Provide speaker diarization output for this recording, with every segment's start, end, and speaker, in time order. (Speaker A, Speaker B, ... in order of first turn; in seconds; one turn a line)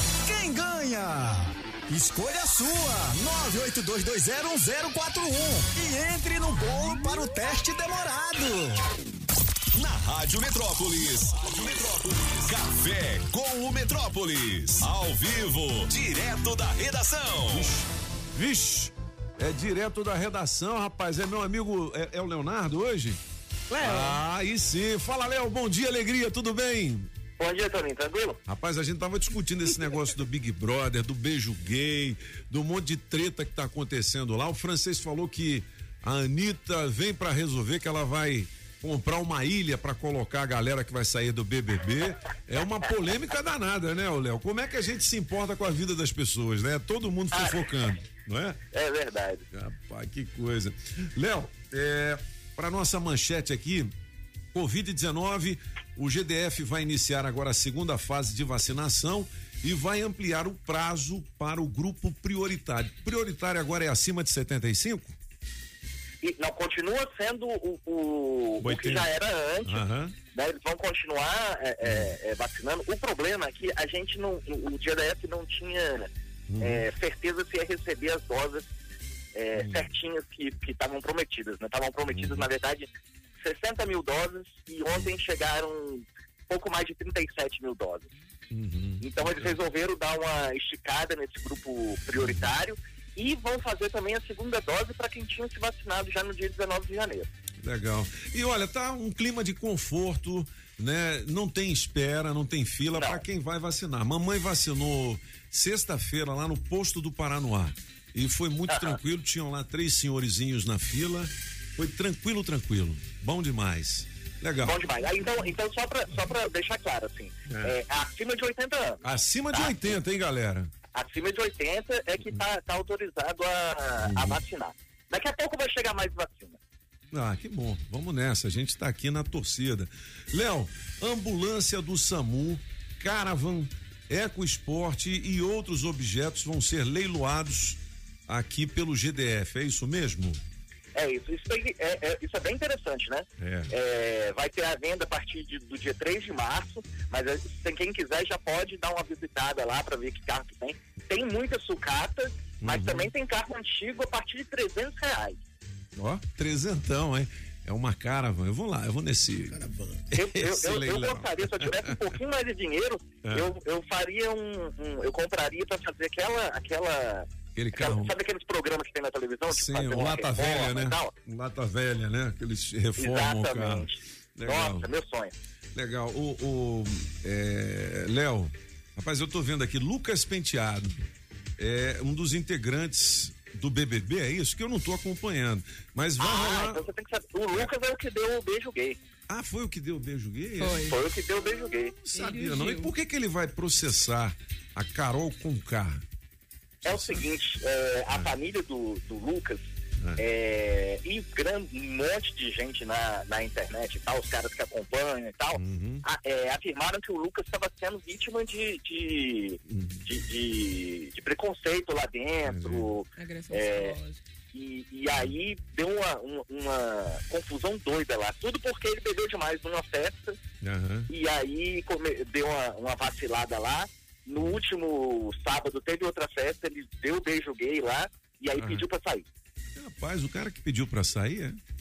Speaker A: 0.2-8.8
Speaker B: 9.8-17.7
Speaker C: 17.5-23.2
Speaker D: 23.7-24.2
Speaker C: 23.8-27.1
Speaker E: 27.4-28.4
Speaker C: 28.5-48.5
Speaker E: 47.3-47.6
Speaker E: 48.7-49.4
Speaker C: 49.5-53.9
Speaker C: 54.5-65.1
Speaker E: 66.2-69.8
Speaker C: 68.6-69.1
Speaker C: 69.6-70.1
Speaker E: 70.3-76.1
Speaker C: 71.8-72.1
Speaker C: 76.5-76.8
Speaker E: 76.6-78.7
Speaker E: 79.3-82.9
Speaker C: 79.5-79.9
Speaker C: 82.1-82.5
Speaker E: 83.4-88.1
Speaker C: 88.5-89.6
Speaker E: 89.0-97.3
Speaker C: 92.2-92.5
Speaker C: 97.6-114.8
Speaker E: 102.9-103.2
Speaker E: 108.7-109.0
Speaker E: 114.6-119.0
Speaker C: 119.0-120.7
Speaker E: 119.5-119.9
Speaker E: 120.9-126.5
Speaker C: 124.0-124.4
Speaker C: 127.1-140.4
Speaker E: 140.9-155.4
Speaker C: 143.4-143.7
Speaker C: 152.6-153.1
Speaker C: 155.9-159.6
Speaker C: 160.1-161.9
Speaker E: 160.1-171.1
Speaker C: 163.2-163.5
Speaker C: 167.6-168.1
Speaker C: 169.5-174.8
Speaker E: 173.0-175.3
Speaker C: 175.7-181.0
Speaker C: 181.6-186.8
Speaker E: 186.2-189.0
Speaker C: 189.3-190.9
Speaker D: 190.6-191.0
Speaker E: 190.8-191.9
Speaker C: 191.4-196.0
Speaker D: 192.2-192.9
Speaker C: 196.8-197.2
Speaker E: 196.8-199.6
Speaker E: 200.2-214.0
Speaker C: 205.6-206.0
Speaker C: 209.7-210.0
Speaker C: 212.4-212.9
Speaker D: 213.2-214.2
Speaker E: 214.5-220.3
Speaker C: 220.6-221.1
Speaker E: 221.1-229.2
Speaker C: 228.6-228.8
Speaker C: 229.8-231.6